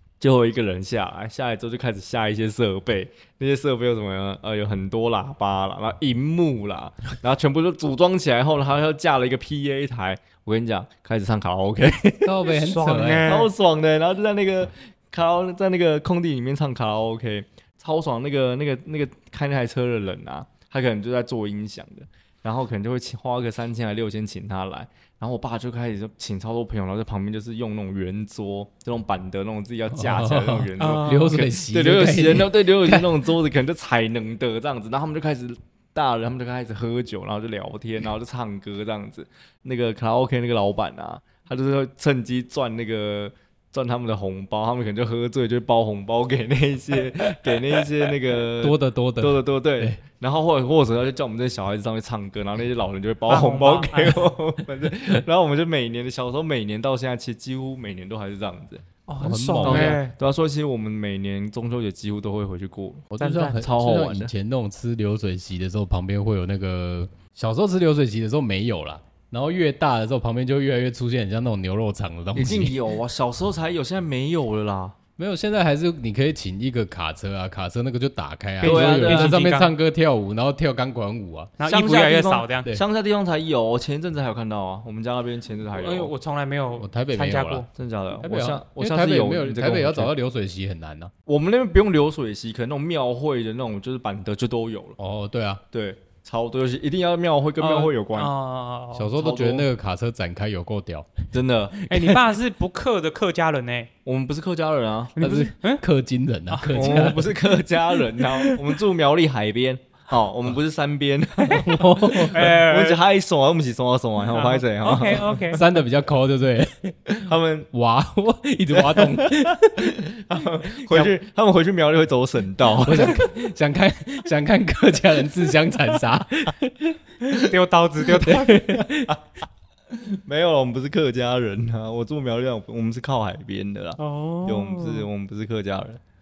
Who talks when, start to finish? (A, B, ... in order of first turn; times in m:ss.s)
0:00.2-0:12.5 A
0:12.2-0:13.4 B
0:12.5-0:13.5 C
0:13.3-0:58.8 A
0:29.9-0:33.2 B
0:30.8-0:31.4 C
0:48.6-0:50.0 B
0:53.3-0:54.3 C
0:59.1-1:00.1 C
0:59.2-1:00.0 B
0:59.6-1:04.3 A
1:03.1-1:12.8 B
1:03.2-1:03.6 C
1:12.4-1:15.0 A
1:15.2-1:21.5 B
1:18.6-1:19.7 C
1:18.6-1:19.4 A
1:21.6-1:22.7 C
1:21.6-1:26.1 A
1:25.7-1:27.7 C
1:26.8-1:27.7 B
1:27.8-1:30.1 A
1:28.2-1:31.1 B
1:31.3-1:35.0 A
1:35.0-1:35.6 B
1:35.7-1:38.3 A
1:37.6-1:39.2 C
1:38.9-1:41.2 B
1:39.2-1:39.7 A
1:41.3-1:41.8 A
1:41.9-1:43.9 C
1:41.9-1:42.2 B
1:44.0-1:45.2 A
1:45.2-1:45.8 C
1:45.2-1:47.6 B
1:46.5-1:47.2 C
1:46.7-1:55.6 A
1:48.2-1:48.6 B
1:51.5-1:52.4 B
1:52.2-1:53.0 C
1:54.3-1:55.6 C
1:55.5-1:57.0 B
1:57.1-1:57.7 A
1:57.7-2:00.0 B
1:58.7-2:03.3 A
2:00.8-2:01.1 B
2:02.8-2:07.0 B
2:07.2-2:08.6 C
2:08.2-2:09.2 B
2:08.6-2:09.2 A
2:09.9-2:16.0 A
2:14.0-2:15.1 C